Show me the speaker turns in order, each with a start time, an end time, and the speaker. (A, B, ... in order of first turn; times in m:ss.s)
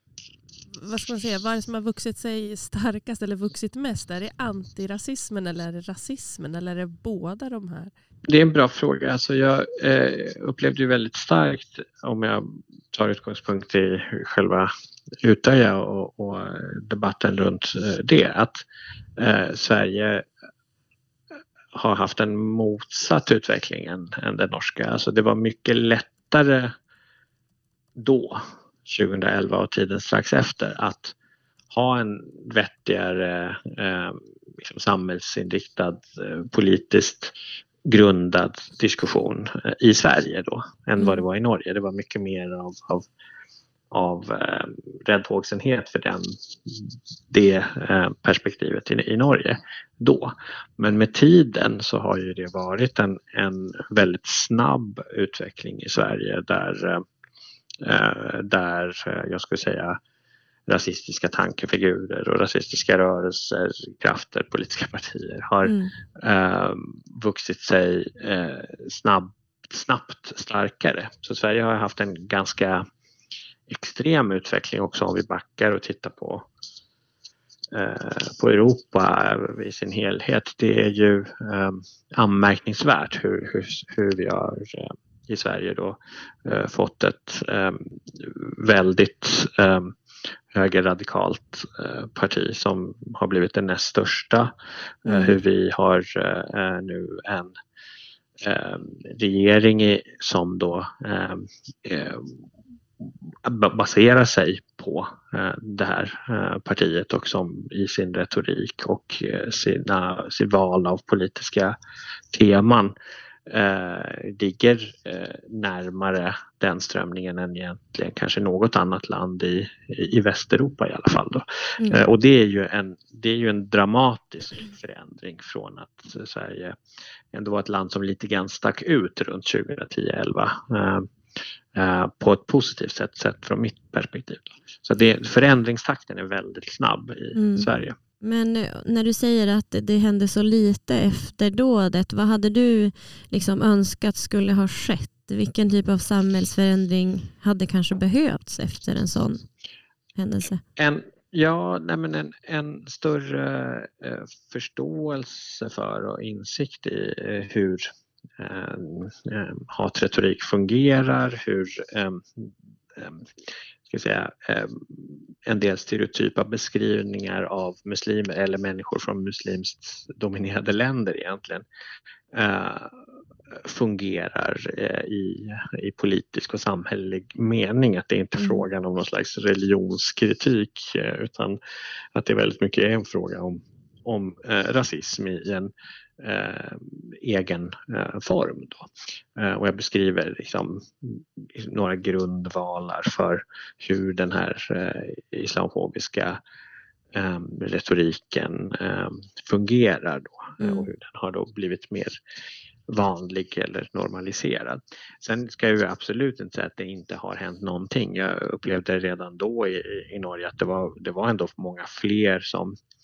0:00.7-0:07.9 A
0:08.3-0:14.7 B
0:15.2-0:18.6 B
0:19.2-0:20.2 B
0:21.7-0:26.7 B
0:28.0-0:31.1 B
0:31.7-0:37.3 B
0:37.8-0:43.1 B
0:41.0-0:41.2 C
0:43.9-0:57.0 B
0:57.8-1:00.0 B
1:00.7-1:12.8 B
1:05.6-1:05.9 C
1:13.7-1:16.5 B
1:17.7-1:30.0 B
1:30.5-1:34.5 B
1:35.0-1:37.6 B
1:35.1-1:35.4 C
1:38.4-1:42.3 B
1:43.0-1:51.8 B
1:52.3-1:52.9 B
1:53.5-2:06.8 B
2:07.3-2:11.1 B
2:11.7-2:18.0 B
2:17.4-2:17.7 C
2:18.2-2:29.4 C
2:30.2-2:30.6 C
2:30.8-2:37.9 B
2:38.4-2:43.3 B
2:43.9-2:51.6 B
2:52.3-2:53.0 B
2:53.5-3:01.6 B
2:58.4-2:58.6 C
3:02.1-3:16.4 B
3:17.1-3:22.2 B
3:20.6-3:20.9 C
3:22.9-3:32.8 B